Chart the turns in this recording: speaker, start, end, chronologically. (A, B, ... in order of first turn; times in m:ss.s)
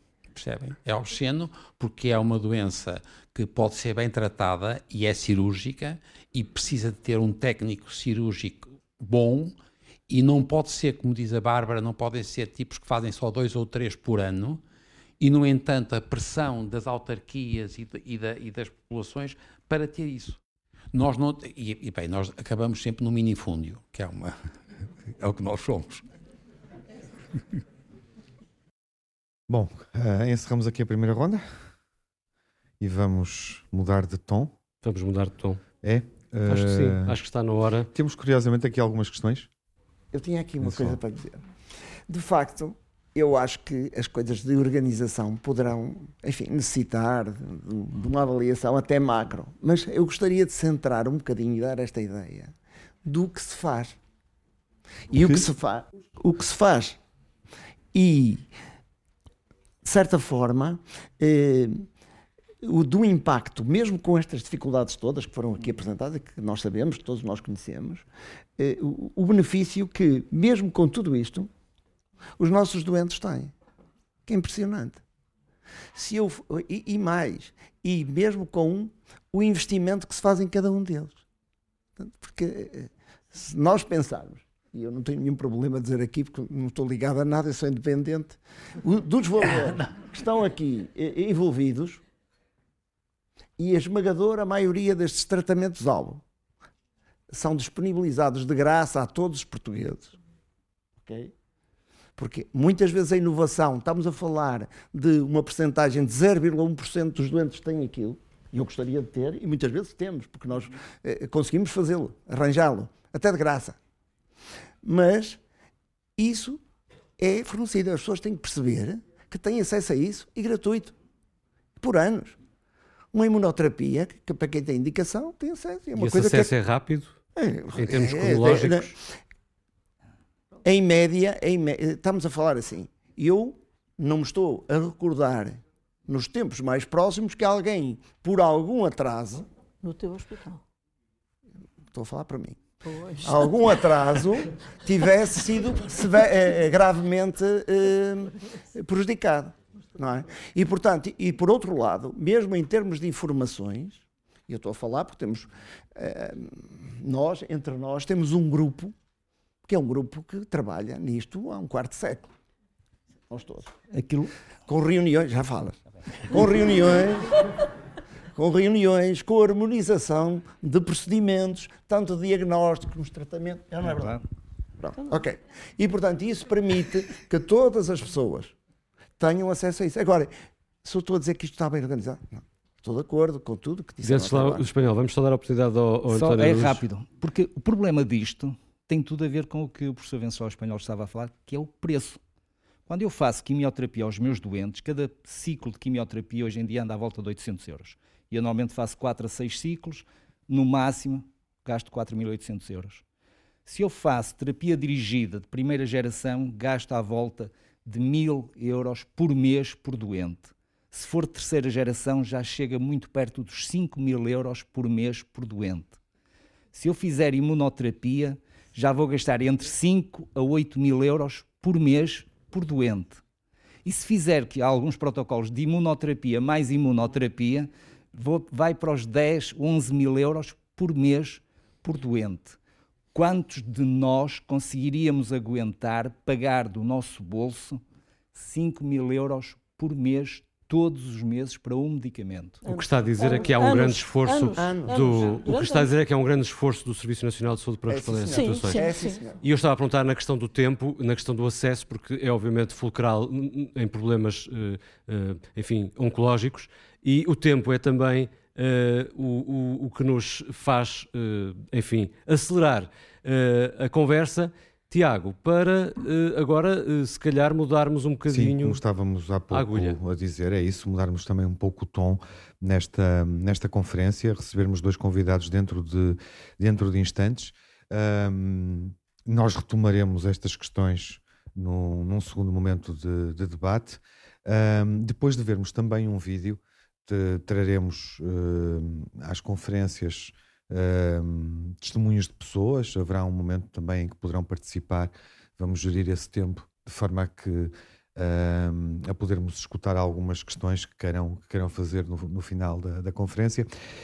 0:00.3-0:09.5 A
0:10.1-0:14.6 A
0:15.2-0:20.4 A
0:20.9-0:24.4 A
0:25.1-0:26.0 A
0:29.5-0:31.6 B
0:32.8-0:34.5 B
0:34.8-0:35.6 C
0:35.8-0:37.2 B
0:36.4-0:37.9 C
0:37.9-0:39.5 B
0:40.1-0:41.5 D
0:40.6-0:41.0 B
0:42.1-0:52.5 D
0:53.0-0:54.0 D
0:55.1-0:57.0 D
0:55.1-0:55.4 B
0:57.9-0:58.5 D
0:59.8-1:01.9 D
1:02.6-1:08.0 D
1:08.6-1:11.5 D
1:12.4-1:13.5 D
1:14.2-1:15.0 D
1:15.9-1:21.2 D
1:22.0-1:32.0 D
1:33.6-1:36.2 D
1:37.3-1:40.2 D
1:41.0-1:41.3 D
1:42.2-1:53.8 D
1:54.8-1:55.4 D
1:56.2-1:56.6 D
1:57.2-2:01.0 D
2:01.8-2:02.4 D
2:03.1-2:06.5 D
2:06.0-2:07.1 C
2:07.4-2:09.0 D
2:07.7-2:08.9 C
2:10.6-2:19.5 D
2:19.8-2:20.6 E
2:21.9-2:22.6 D
2:22.8-2:23.4 E
2:23.2-2:38.9 D
2:39.6-2:42.3 D
2:43.3-2:43.7 D
2:43.9-2:44.3 F
2:44.7-2:47.4 D
2:48.4-2:54.2 D
2:53.8-2:54.2 F
2:54.8-2:58.5 D
2:59.2-3:00.3 D
3:00.8-3:04.7 D
3:04.0-3:06.8 C
3:06.1-3:12.2 F
3:12.9-3:23.0 F
3:23.6-3:36.0 F
3:36.7-3:43.2 F
3:43.8-3:52.6 F
3:53.1-3:57.8 F
3:58.3-4:02.6 F
4:02.6-4:05.9 E
4:02.6-4:28.8 C
4:04.6-4:05.3 D
4:07.9-4:09.4 D
4:08.3-4:09.2 E
4:28.3-5:03.7 B
4:29.5-4:30.0 C